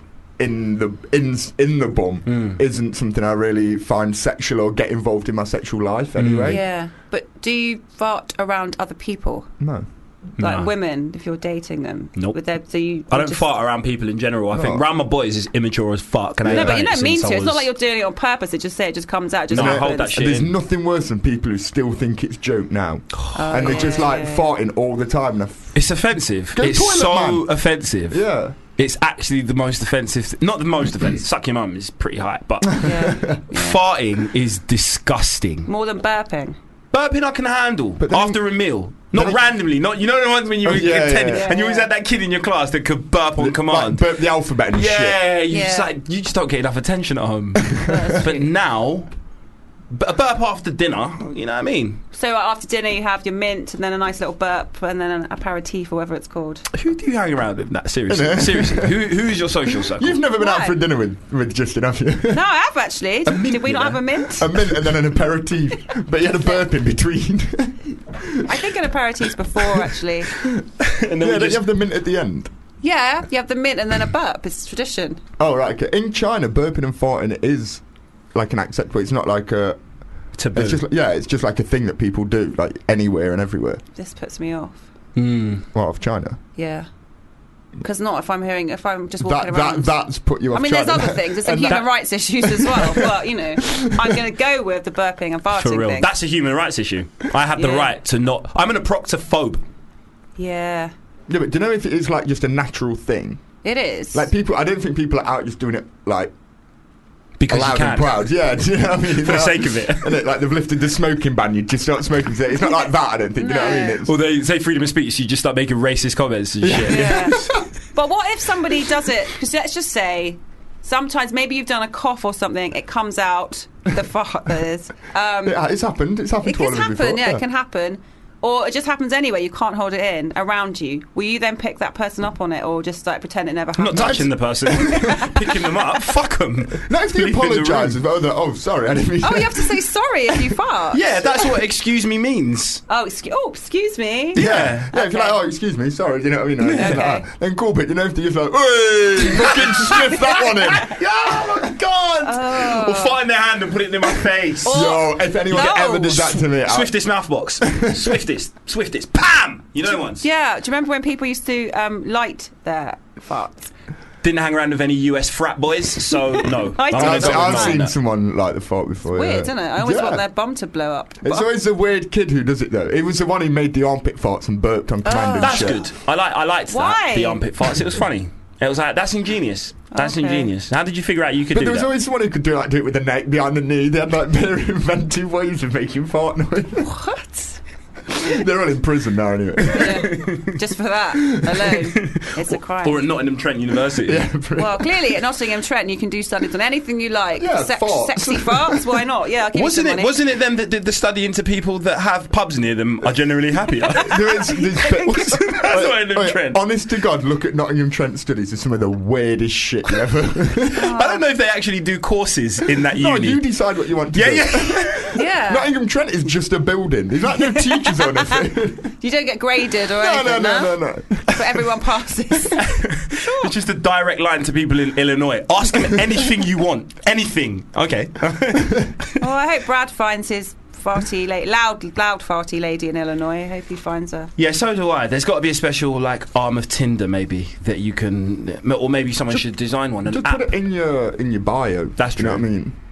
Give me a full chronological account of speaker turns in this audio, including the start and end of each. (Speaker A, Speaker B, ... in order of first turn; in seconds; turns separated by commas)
Speaker A: 0.4-6.6, Speaker B: 2.3-2.6, Speaker B: 6.2-6.6, Speaker C: 6.5-9.5, Speaker A: 9.6-9.8, Speaker B: 10.4-10.7, Speaker C: 10.4-13.4, Speaker B: 13.1-17.7, Speaker A: 14.5-14.8, Speaker A: 16.4-16.8, Speaker C: 16.5-20.2, Speaker B: 19.5-20.5, Speaker A: 19.5-25.8, Speaker B: 23.1-24.0, Speaker C: 23.3-24.4, Speaker B: 25.7-32.9, Speaker A: 26.5-27.5, Speaker A: 28.1-28.6, Speaker A: 32.7-33.4, Speaker C: 32.8-33.8, Speaker B: 33.5-35.7, Speaker C: 35.7-36.6, Speaker B: 36.9-44.1, Speaker A: 38.0-38.4, Speaker A: 39.1-39.4, Speaker A: 40.6-41.5, Speaker C: 41.3-41.9, Speaker A: 43.4-45.2, Speaker B: 44.7-49.1, Speaker C: 45.5-45.9, Speaker C: 47.9-48.5, Speaker B: 49.9-52.0, Speaker C: 52.1-56.6, Speaker B: 56.7-60.2, Speaker A: 58.1-59.0, Speaker A: 59.7-62.4, Speaker C: 60.4-60.8, Speaker C: 62.3-64.5, Speaker B: 63.3-64.2, Speaker A: 64.3-68.7, Speaker C: 68.4-70.3, Speaker A: 69.5-70.6, Speaker B: 70.8-71.6, Speaker A: 71.2-72.5, Speaker C: 72.8-75.2, Speaker A: 75.4-77.8, Speaker A: 78.3-79.8, Speaker B: 80.3-80.8, Speaker A: 80.5-83.8, Speaker C: 84.0-84.8, Speaker B: 85.1-85.6, Speaker A: 85.7-86.4, Speaker C: 86.6-86.9, Speaker C: 87.8-89.9, Speaker A: 89.2-91.8, Speaker C: 90.5-96.1, Speaker A: 92.5-94.2, Speaker B: 95.5-99.6, Speaker C: 97.6-97.9, Speaker C: 100.4-100.9, Speaker A: 101.3-103.4, Speaker C: 103.6-104.3, Speaker A: 104.1-106.3, Speaker B: 107.4-108.3, Speaker A: 107.5-114.1, Speaker B: 109.0-110.2, Speaker C: 113.4-114.0, Speaker B: 114.0-117.5, Speaker A: 116.6-117.6, Speaker C: 116.9-125.6, Speaker A: 125.4-127.4, Speaker C: 126.4-135.3, Speaker B: 133.8-138.0, Speaker A: 133.9-135.4, Speaker A: 136.7-139.8, Speaker C: 139.2-141.4, Speaker B: 140.9-142.8, Speaker C: 142.9-144.4, Speaker B: 144.3-144.9, Speaker A: 144.3-151.8, Speaker C: 144.9-145.4, Speaker C: 146.7-147.2, Speaker B: 149.4-154.9, Speaker C: 152.2-153.2, Speaker C: 154.6-156.3, Speaker A: 154.7-156.9, Speaker B: 155.5-160.2, Speaker A: 157.6-158.2, Speaker C: 160.2-163.7, Speaker B: 164.2-167.9, Speaker C: 166.1-167.8, Speaker A: 166.9-170.2, Speaker C: 169.1-171.5, Speaker A: 171.2-175.8, Speaker C: 175.0-175.8, Speaker B: 175.4-181.9, Speaker C: 176.7-177.4, Speaker C: 179.9-180.5, Speaker A: 181.5-186.9, Speaker C: 186.8-187.6, Speaker A: 188.1-190.2, Speaker C: 189.7-193.0, Speaker B: 189.8-190.5, Speaker B: 191.9-194.3, Speaker A: 194.0-194.9, Speaker C: 194.6-200.1, Speaker A: 197.4-199.0, Speaker B: 199.5-206.6, Speaker A: 203.9-210.9, Speaker C: 210.7-211.2, Speaker B: 210.8-213.4, Speaker A: 212.9-218.9, Speaker B: 214.1-215.2, Speaker C: 215.1-215.7, Speaker C: 217.5-218.3, Speaker C: 219.0-223.5, Speaker A: 219.9-221.7, Speaker B: 222.6-229.2, Speaker C: 229.2-234.3, Speaker B: 234.4-240.5, Speaker A: 240.0-242.8, Speaker B: 242.0-242.4